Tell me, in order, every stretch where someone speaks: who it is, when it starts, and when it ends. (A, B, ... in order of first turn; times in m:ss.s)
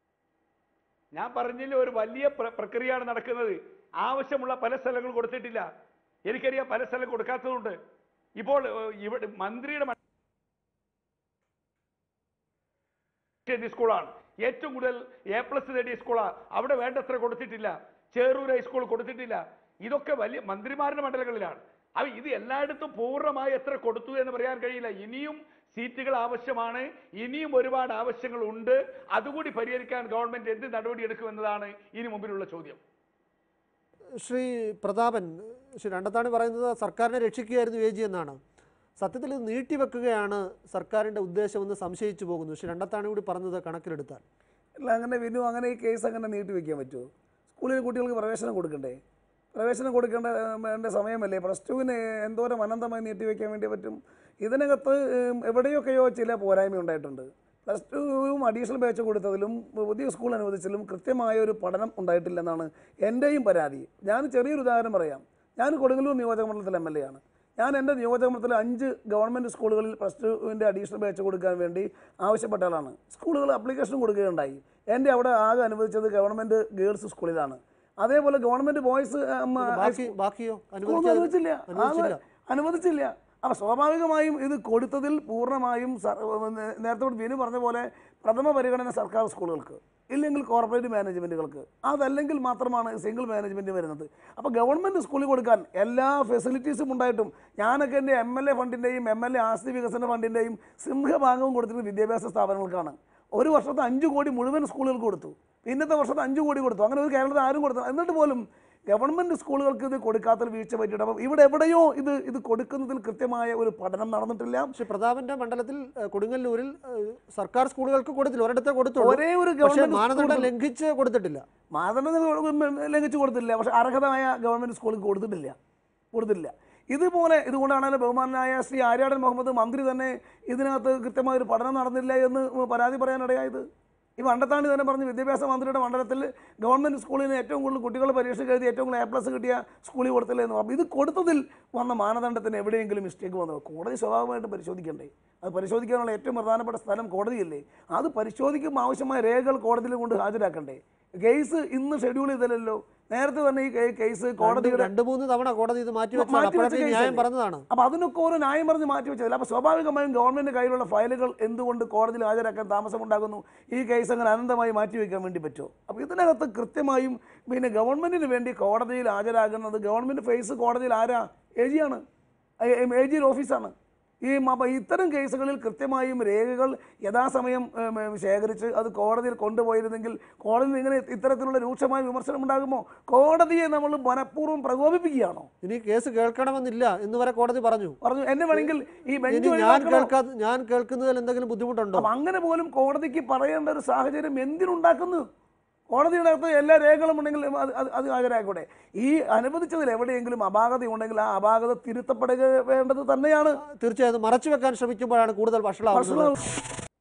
0:01.2-0:05.7 A
0:06.3-0:07.8 A
0:08.4-0:10.0 A
0:13.5-0:32.8 A
0:34.2-0:38.4 B
0:39.0-0:44.2 B
0:44.8-0:49.0 C
0:49.5-1:20.1 C
1:19.6-1:22.2 B
1:20.9-1:54.7 C
1:54.7-2:01.4 B
1:59.0-2:00.5 C
2:01.7-2:05.6 C
2:06.1-2:13.7 C
2:14.2-2:34.9 C
2:34.4-2:37.7 B
2:36.2-2:52.0 C
2:52.6-3:05.5 C
3:05.6-3:08.0 B
3:08.0-3:10.1 C
3:09.3-3:12.1 B
3:12.0-3:15.2 C
3:15.9-3:23.6 C
3:23.6-3:26.4 B
3:25.9-3:26.4 C